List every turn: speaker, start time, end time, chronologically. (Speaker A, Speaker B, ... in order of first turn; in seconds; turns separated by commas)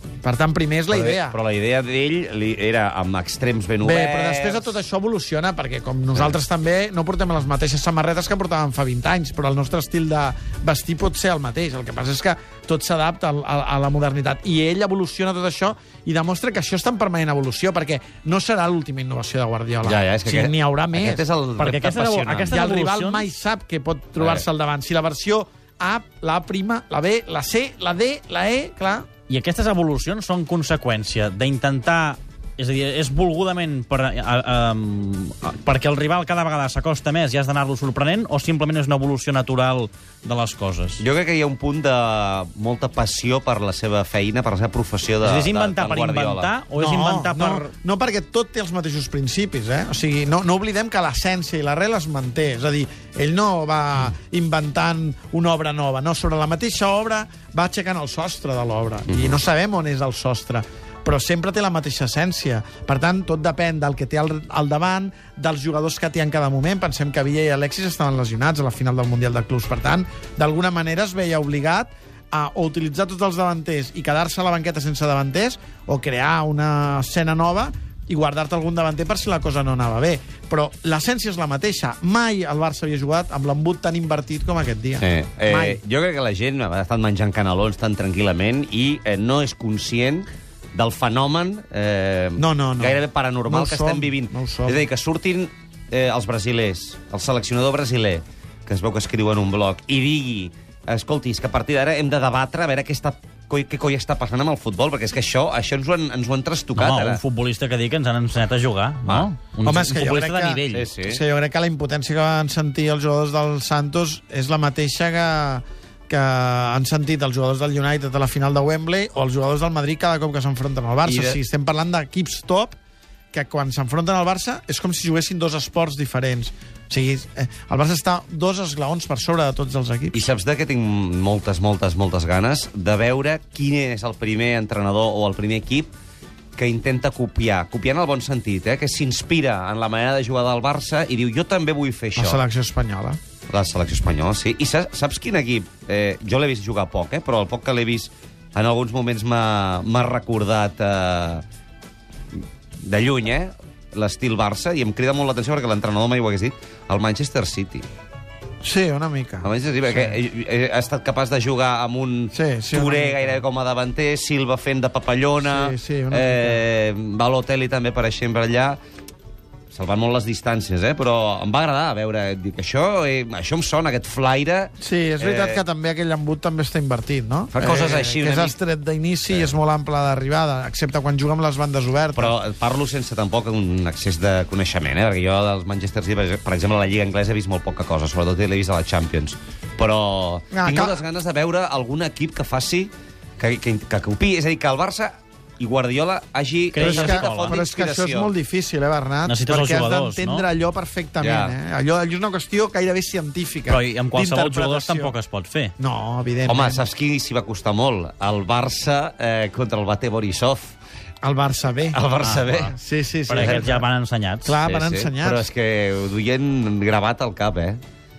Speaker A: 0.2-1.4, Speaker B: 0.9-4.8, Speaker A: 3.8-21.2, Speaker B: 19.8-22.6, Speaker C: 21.6-23.3, Speaker A: 22.5-29.1, Speaker B: 24.2-24.5, Speaker C: 29.3-41.0, Speaker B: 41.0-46.5, Speaker C: 45.2-47.7, Speaker A: 46.8-85.8, Speaker B: 59.1-59.4, Speaker B: 85.0-107.2, Speaker A: 92.4-94.9, Speaker C: 106.8-110.9, Speaker A: 109.6-122.8, Speaker B: 110.7-111.2, Speaker B: 121.0-121.4, Speaker A: 123.3-130.2, Speaker B: 130.1-135.9, Speaker B: 136.6-142.4, Speaker A: 142.2-143.2, Speaker B: 143.5-151.4, Speaker B: 152.8-157.9, Speaker A: 158.6-160.2, Speaker B: 159.4-168.8, Speaker A: 162.3-163.4, Speaker A: 165.4-166.6, Speaker B: 169.7-175.6, Speaker A: 174.8-182.3, Speaker B: 177.5-178.6, Speaker B: 182.2-198.3, Speaker A: 190.5-191.0, Speaker C: 196.7-197.6, Speaker A: 196.8-205.2, Speaker C: 199.3-200.4, Speaker B: 201.2-201.6, Speaker C: 203.7-205.7, Speaker A: 205.8-206.8, Speaker B: 206.5-210.8, Speaker A: 211.2-212.0, Speaker B: 211.9-212.8, Speaker C: 212.2-212.7, Speaker A: 212.7-213.9, Speaker C: 213.3-214.6, Speaker B: 213.4-213.6, Speaker A: 214.4-215.5, Speaker B: 214.6-217.8